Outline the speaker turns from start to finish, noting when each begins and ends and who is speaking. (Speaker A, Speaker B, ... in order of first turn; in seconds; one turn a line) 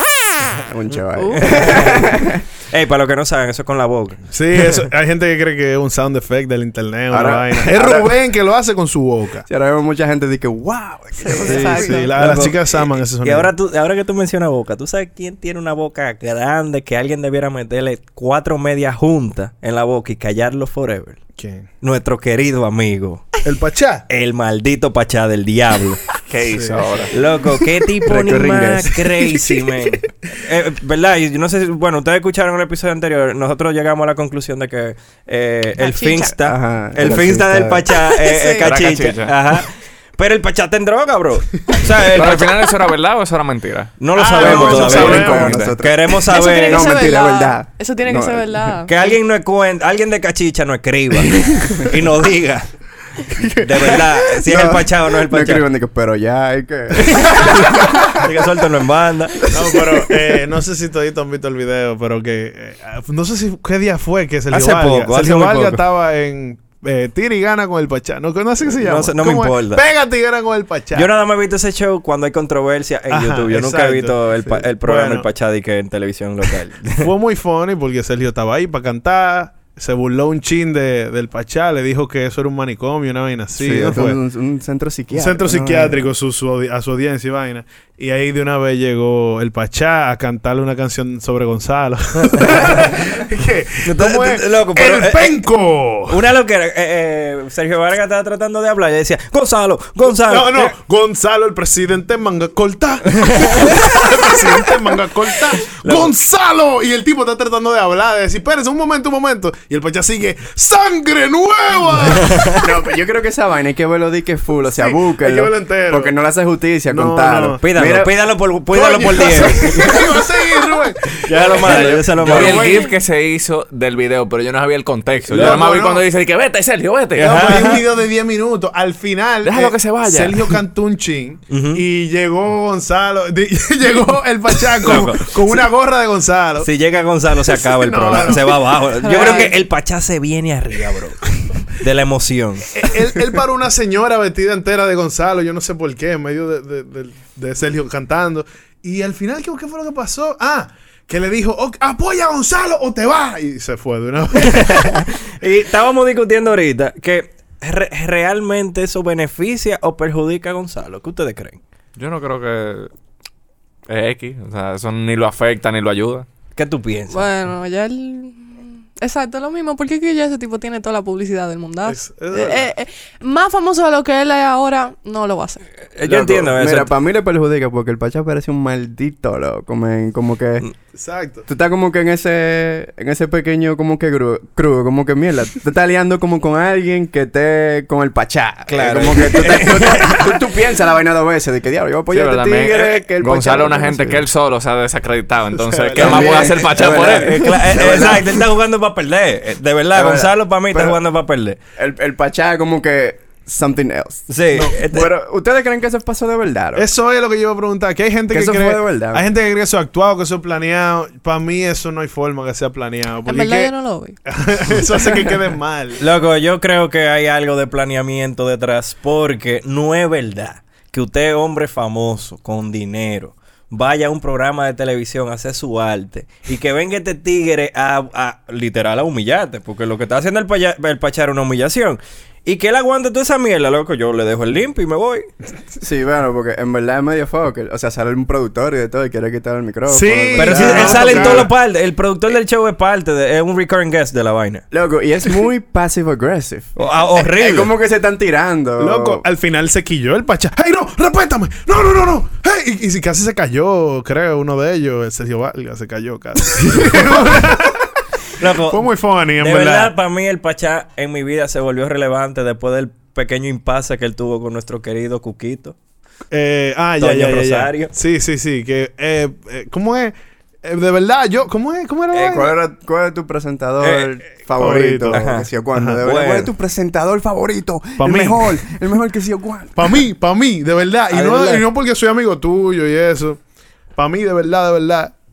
Speaker A: 0.5-2.4
Speaker B: 1.1-1.8
Speaker C: 1.3-2.2
Speaker C: 2.7-4.2
Speaker D: 4.3-9.4
Speaker A: 7.1-8.1
Speaker A: 9.5-12.1
Speaker B: 11.2-12.1
Speaker D: 11.3-13.5
Speaker C: 12.2-21.2
Speaker D: 21.4-21.7
Speaker C: 21.8-23.2
Speaker D: 23.4-24.1
Speaker C: 24.1-26.0
Speaker E: 26.3-27.1
Speaker D: 26.4-27.0
Speaker C: 27.1-42.7
Speaker A: 28.0-29.1
Speaker B: 35.8-36.3
Speaker A: 36.2-37.9
Speaker B: 38.1-38.7
Speaker E: 38.6-39.4
Speaker E: 42.1-45.7
Speaker C: 44.0-47.1
Speaker D: 44.1-45.7
Speaker A: 44.3-48.7
Speaker B: 46.3-49.1
Speaker C: 48.9-52.7
Speaker A: 51.5-51.9
Speaker A: 53.4-58.1
Speaker C: 53.6-55.6
Speaker C: 57.4-59.5
Speaker D: 59.5-71.1
Speaker C: 64.5-65.8
Speaker C: 68.7-69.8
Speaker C: 70.9-77.1
Speaker D: 73.1-75.3
Speaker D: 77.0-84.2
Speaker A: 83.5-86.1
Speaker D: 85.1-96.2
Speaker C: 92.3-92.6
Speaker C: 93.8-95.4
Speaker C: 96.1-100.8
Speaker D: 100.1-112.4
Speaker C: 103.1-104.0
Speaker C: 105.8-106.1
Speaker C: 112.1-112.7
Speaker A: 112.6-118.1
Speaker D: 114.7-116.1
Speaker D: 116.9-117.6
Speaker C: 117.6-120.0
Speaker D: 118.7-122.9
Speaker C: 121.2-122.8
Speaker E: 121.5-127.4
Speaker D: 125.3-126.0
Speaker D: 127.2-136.7
Speaker C: 127.2-127.8
Speaker E: 129.4-130.6
Speaker C: 131.5-131.8
Speaker C: 134.8-135.6
Speaker C: 136.6-142.9
Speaker D: 137.3-139.5
Speaker B: 139.0-139.5
Speaker D: 142.7-155.1
Speaker C: 154.4-161.6
Speaker E: 161.9-162.9
Speaker E: 163.9-166.2
Speaker C: 166.6-167.3
Speaker B: 167.1-175.6
Speaker D: 171.8-172.7
Speaker C: 175.9-176.9
Speaker A: 176.0-180.6
Speaker D: 180.9-181.4
Speaker A: 181.4-194.3
Speaker C: 188.7-190.4
Speaker E: 192.1-197.5
Speaker D: 195.6-196.7
Speaker A: 195.9-198.4
Speaker C: 196.9-201.6
Speaker A: 199.9-200.9
Speaker A: 201.8-206.9
Speaker C: 204.3-205.1
Speaker D: 204.5-204.8
Speaker D: 206.8-213.7
Speaker A: 208.3-209.2
Speaker B: 213.2-214.2
Speaker D: 214.2-216.0
Speaker C: 216.0-235.3
Speaker A: 235.8-241.5
Speaker D: 239.9-241.5
Speaker C: 240.3-244.6
Speaker A: 244.7-249.2
Speaker C: 246.8-247.7
Speaker D: 248.8-257.8
Speaker C: 258.4-265.7
Speaker D: 258.4-259.9
Speaker D: 266.3-272.5
Speaker C: 267.0-267.9
Speaker C: 272.1-272.5
Speaker A: 272.2-279.9
Speaker C: 273.8-274.1
Speaker D: 274.5-276.0
Speaker C: 275.1-275.5
Speaker C: 276.0-276.5
Speaker D: 278.0-278.4
Speaker D: 279.8-283.4
Speaker C: 281.1-281.6
Speaker D: 283.9-285.1